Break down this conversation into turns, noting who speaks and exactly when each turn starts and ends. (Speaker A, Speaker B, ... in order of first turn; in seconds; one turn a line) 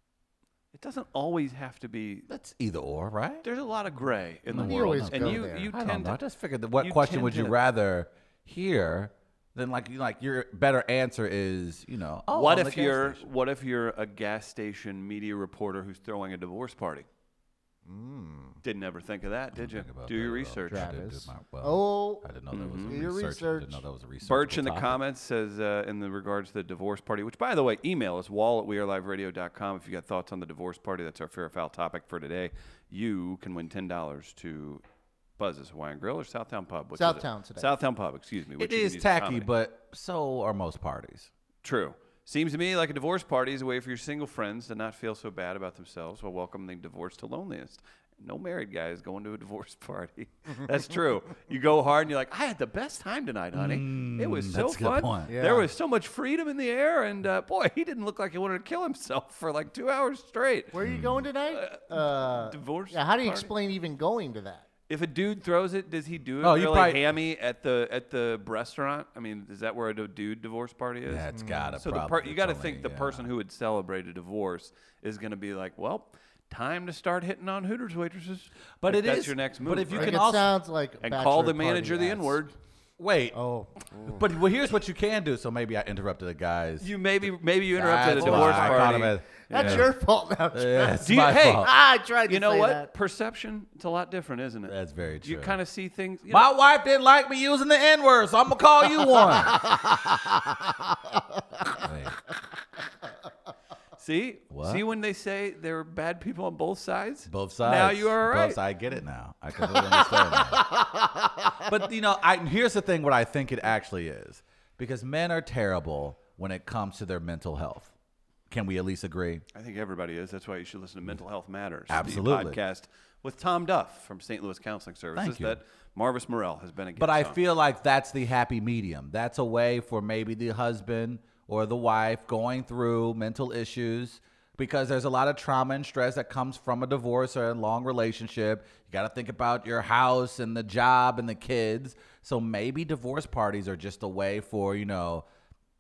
Speaker A: 0.7-2.3
Speaker B: 2.3-3.5
Speaker A: 3.4-6.2
Speaker B: 4.5-13.3
Speaker C: 4.5-5.7
Speaker A: 6.8-7.6
Speaker A: 12.3-17.1
Speaker C: 17.9-18.6
Speaker A: 18.6-20.9
Speaker B: 19.5-25.0
Speaker C: 20.7-23.8
Speaker A: 22.5-23.0
Speaker A: 24.2-34.8
Speaker A: 35.4-39.5
Speaker C: 37.0-37.8
Speaker B: 38.6-41.3
Speaker A: 41.6-60.7
Speaker B: 53.5-55.3
Speaker C: 55.3-55.7
Speaker C: 60.7-64.7
Speaker B: 60.8-61.2
Speaker A: 61.5-63.5
Speaker A: 64.9-71.3
Speaker B: 66.4-67.0
Speaker B: 71.1-73.3
Speaker C: 71.3-71.8
Speaker A: 71.8-80.2
Speaker B: 78.8-80.5
Speaker C: 79.9-82.5
Speaker A: 81.0-82.5
Speaker B: 83.0-83.4
Speaker C: 83.3-84.3
Speaker B: 84.1-89.9
Speaker A: 86.8-89.9
Speaker C: 88.0-88.9
Speaker C: 89.5-92.9
Speaker B: 90.5-91.7
Speaker A: 91.0-91.7
Speaker A: 92.3-96.5
Speaker B: 94.7-95.6
Speaker B: 96.3-100.9
Speaker B: 101.8-102.2
Speaker A: 104.0-108.6
Speaker B: 104.5-104.8
Speaker B: 107.3-110.7
Speaker C: 110.8-111.5
Speaker B: 111.6-117.9
Speaker B: 118.5-119.5
Speaker A: 119.5-127.4
Speaker B: 121.9-122.6
Speaker B: 125.2-125.6
Speaker B: 127.0-145.3